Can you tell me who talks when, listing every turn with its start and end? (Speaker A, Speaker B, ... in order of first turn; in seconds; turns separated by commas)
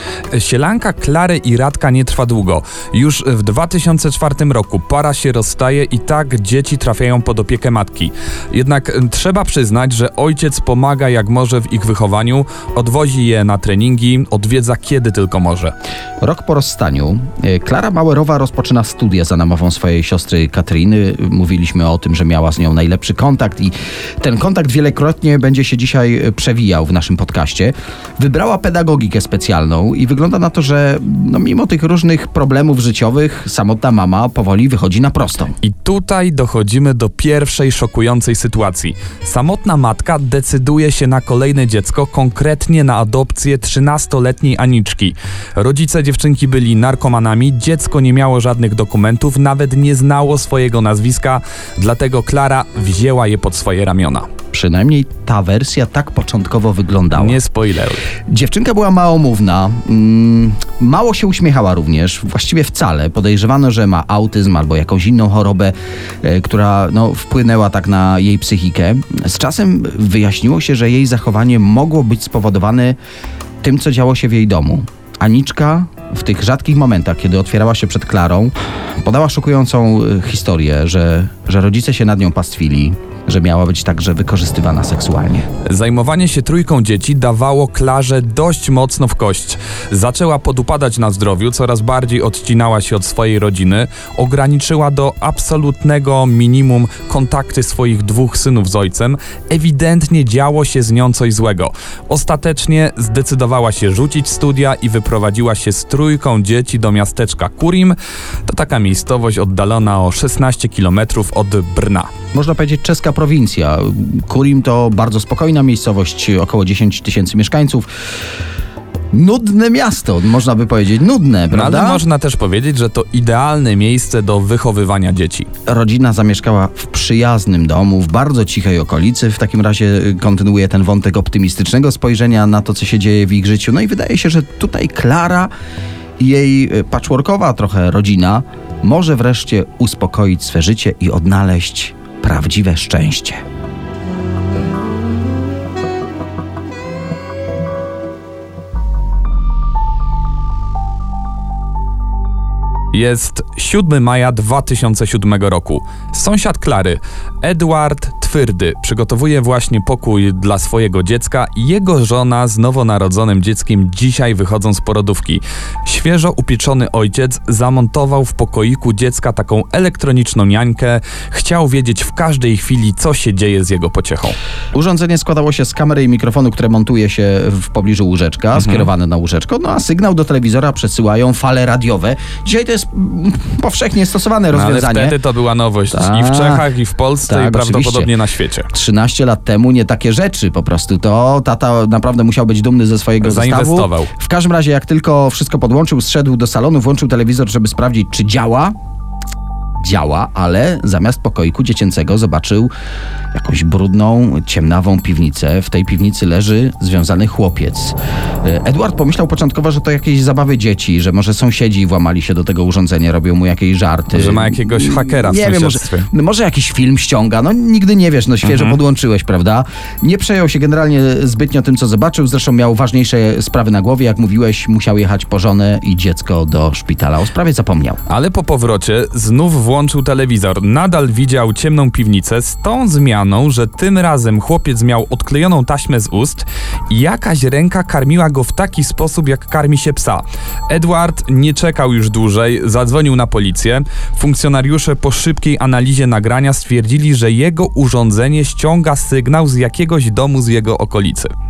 Speaker A: 0.3-15.7, Speaker B: 16.2-35.5, Speaker A: 35.6-54.3, Speaker B: 54.5-57.4, Speaker A: 57.1-58.0, Speaker B: 58.3-73.0, Speaker B: 73.6-85.5, Speaker A: 85.6-112.1, Speaker B: 112.3-117.9, Speaker B: 119.1-122.0, Speaker A: 121.5-125.5, Speaker B: 125.7-135.5, Speaker B: 136.2-143.4, Speaker A: 152.9-174.3, Speaker B: 174.7-185.2, Speaker A: 178.5-178.9, Speaker A: 184.5-188.7, Speaker B: 185.9-186.7, Speaker B: 187.3-188.1, Speaker B: 188.7-198.7, Speaker A: 193.2-194.1, Speaker B: 199.8-202.7, Speaker B: 203.3-228.0, Speaker A: 214.1-216.1, Speaker A: 218.4-218.8, Speaker A: 228.1-251.3